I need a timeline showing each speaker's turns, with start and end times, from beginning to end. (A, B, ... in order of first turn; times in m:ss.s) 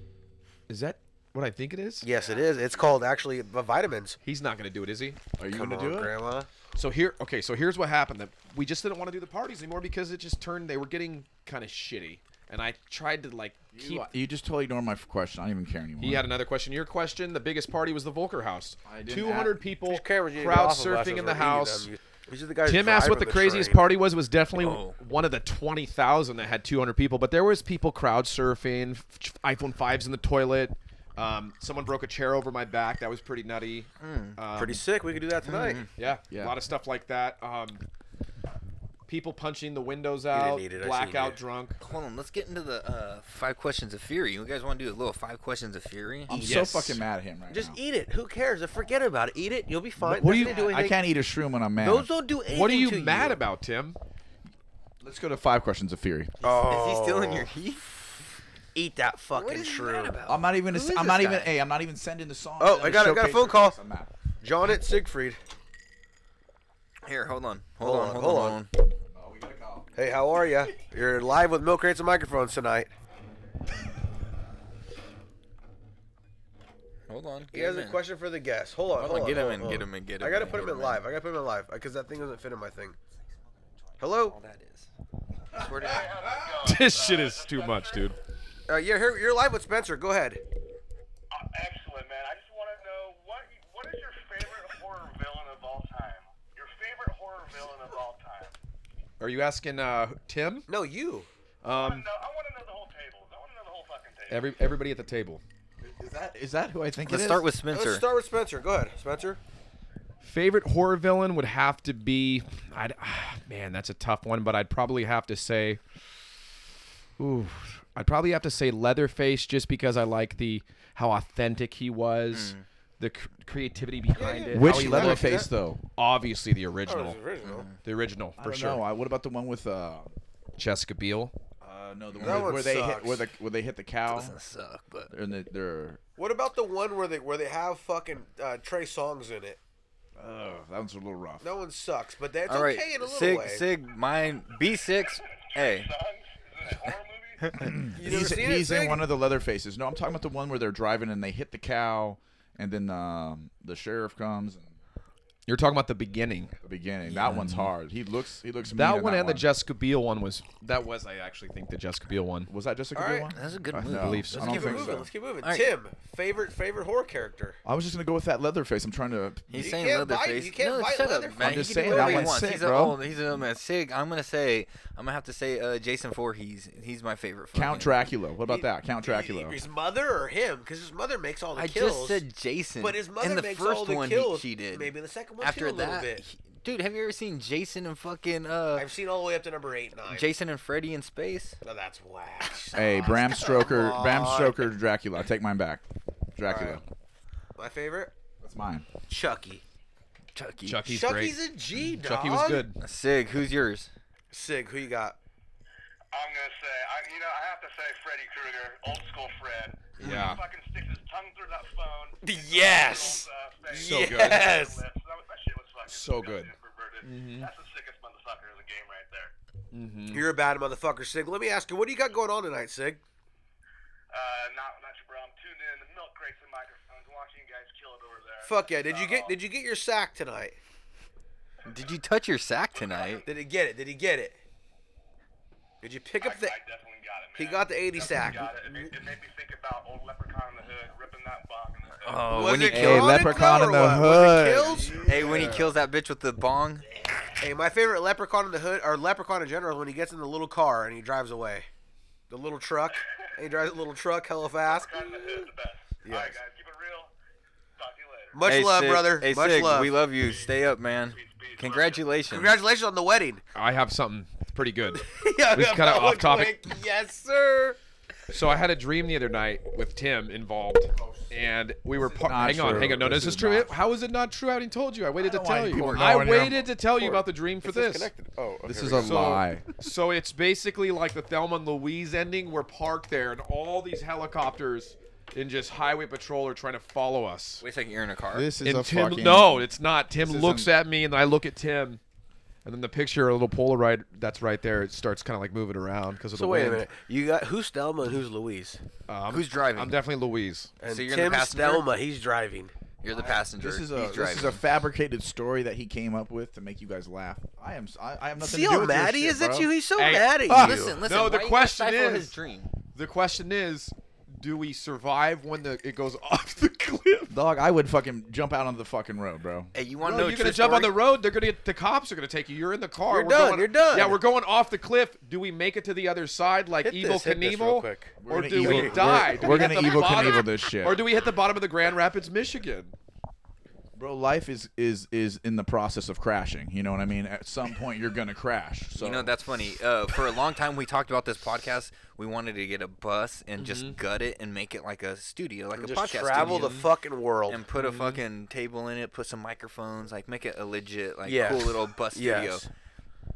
0:00.7-0:02.1 A
0:02.0-0:04.2 B
0:04.2-0:05.2 A
0:05.4-0:06.1 C
0:05.5-0:06.5 B
0:06.7-0:14.1 A
0:13.7-0:16.3 C
0:16.0-0:21.9 A
0:18.8-0:19.6 C
0:19.9-0:23.8 B
0:22.6-0:34.8 A
0:24.6-0:25.0 D
0:34.0-0:34.4 D
0:34.5-0:35.8 B
0:35.4-0:35.9 D
0:35.9-0:37.8 A
0:36.3-0:36.6 C
0:39.1-0:41.8 A
0:40.3-0:41.4 B
0:41.8-0:46.4 D
0:46.3-0:47.8 C
0:46.3-0:46.6 B
0:46.4-0:47.0 A
0:47.5-0:50.9 B
0:50.0-0:52.1 C
0:50.2-0:50.6 A
0:51.8-0:53.4 B
0:52.5-0:54.0 A
0:55.0-0:56.3 C
0:56.4-0:57.9 D
0:56.4-0:57.5 B
0:58.7-1:00.2 B
0:59.3-1:01.5 D
1:00.3-1:04.1 C
1:02.6-1:03.8 B
1:04.4-1:05.4 B
1:07.0-1:08.7 D
1:07.8-1:08.6 B
1:09.1-1:09.9 C
1:09.9-1:12.9 B
1:17.1-1:18.0 D
1:17.5-1:23.0 B
1:18.9-1:21.0 D
1:24.0-1:24.3 B
1:24.2-1:24.9 D
1:25.5-1:26.1 D
1:25.8-1:28.1 E
1:26.6-1:28.2 A
1:28.7-1:30.4 B
1:31.3-1:38.5 E
1:39.2-1:40.7 A
1:40.7-1:41.3 B
1:41.6-1:42.1 A
1:41.7-1:44.6 E
1:44.3-1:45.4 A
1:45.8-1:47.5 C
1:47.0-1:48.0 D
1:47.7-1:49.4 B
1:50.2-1:55.8 A
1:57.2-2:05.4 A
2:02.3-2:02.6 D
2:04.1-2:05.5 B
2:04.5-2:05.8 C
2:06.0-2:07.2 A
2:06.9-2:07.7 B
2:07.4-2:07.8 D
2:07.8-2:08.8 A
2:08.4-2:10.1 C
2:10.6-2:11.3 A
2:11.6-2:14.3 C
2:12.2-2:13.2 B
2:14.1-2:15.1 D
2:15.1-2:16.0 C
2:16.2-2:19.6 B
2:20.2-2:21.4 C
2:21.4-2:23.6 B
2:22.5-2:25.9 D
2:25.4-2:27.6 E
2:27.4-2:27.7 D
2:27.6-2:34.7 C
2:27.9-2:29.0 B
2:35.5-2:36.5 A
2:36.6-2:39.5 C
2:37.0-2:37.7 D
2:38.7-2:42.5 A
2:42.5-2:45.1 C
2:42.9-2:43.3 B
2:43.3-2:45.7 D
2:43.7-2:44.6 A
2:44.4-2:47.6 B
2:47.6-2:49.6 C
2:49.5-2:58.0 D
2:49.5-2:52.3 B
2:51.4-2:53.0 C
2:57.5-2:59.6 C
2:58.5-3:02.2 B
3:01.6-3:08.9 D
3:02.8-3:06.2 B
3:08.8-3:10.3 B
3:10.1-3:11.6 D
3:11.6-3:14.7 B
3:12.7-3:15.8 C
3:16.4-3:16.8 C
3:16.5-3:16.8 B
3:17.6-3:18.1 B
3:18.4-3:18.9 C
3:19.1-3:19.6 B
3:20.3-3:20.8 D
3:20.6-3:21.4 A
3:20.9-3:22.7 B
3:21.9-3:22.8 A
3:22.8-3:23.9 D
3:24.3-3:25.2 B
3:26.1-3:39.3 E
3:30.0-3:30.4 A
3:32.2-3:34.8 B
3:33.8-3:34.5 A
3:35.9-3:36.5 A
3:37.0-3:37.5 A
3:39.7-3:40.2 A
3:40.1-3:43.0 B
3:44.1-3:49.4 E
3:48.4-3:50.6 B
3:51.6-3:53.2 D
3:52.7-3:53.3 E
3:53.2-3:54.4 B
3:55.8-3:56.6 B
3:56.2-4:02.5 E
3:57.4-3:58.5 B
4:02.0-4:03.2 D
4:02.3-4:05.0 B
4:02.7-4:05.6 C
4:05.0-4:06.9 D
4:05.2-4:05.7 A
4:07.4-4:11.7 B
4:12.3-4:15.4 B
4:12.9-4:13.3 E
4:14.6-4:17.1 E
4:16.0-4:16.4 B
4:17.8-4:18.4 E
4:18.3-4:20.0 B
4:18.4-4:22.6 D
4:20.1-4:22.1 E
4:22.3-4:23.4 B
4:23.5-4:26.7 A
4:24.9-4:27.8 B
4:28.3-4:38.1 A
4:31.0-4:31.2 C
4:32.0-4:33.7 C
4:35.2-4:36.7 C
4:35.7-4:36.1 D
4:37.0-4:39.4 B
4:38.6-4:39.8 C
4:39.0-4:47.6 A
4:47.6-4:48.5 D
4:48.3-4:50.7 C
4:48.6-4:52.0 A
4:52.6-4:56.9 A
4:56.3-4:58.8 B
4:59.1-5:00.7 A
4:59.3-5:00.0 D
5:00.8-5:02.7 B
5:00.8-5:01.8 D
5:03.0-5:04.6 D
5:03.2-5:09.7 C
5:08.4-5:11.0 B
5:10.0-5:12.3 A
5:10.5-5:12.7 D
5:12.9-5:17.3 A
5:17.3-5:19.7 C
5:19.7-5:21.0 D
5:20.0-5:32.9 A
5:23.1-5:24.2 B
5:26.8-5:30.0 B
5:28.2-5:31.0 C
5:34.0-5:39.3 C
5:39.0-5:46.8 D
5:43.6-5:44.0 A
5:45.8-5:47.6 B
5:46.4-5:46.8 A
5:47.5-5:52.7 D
5:47.7-5:48.2 A
5:51.2-5:52.6 B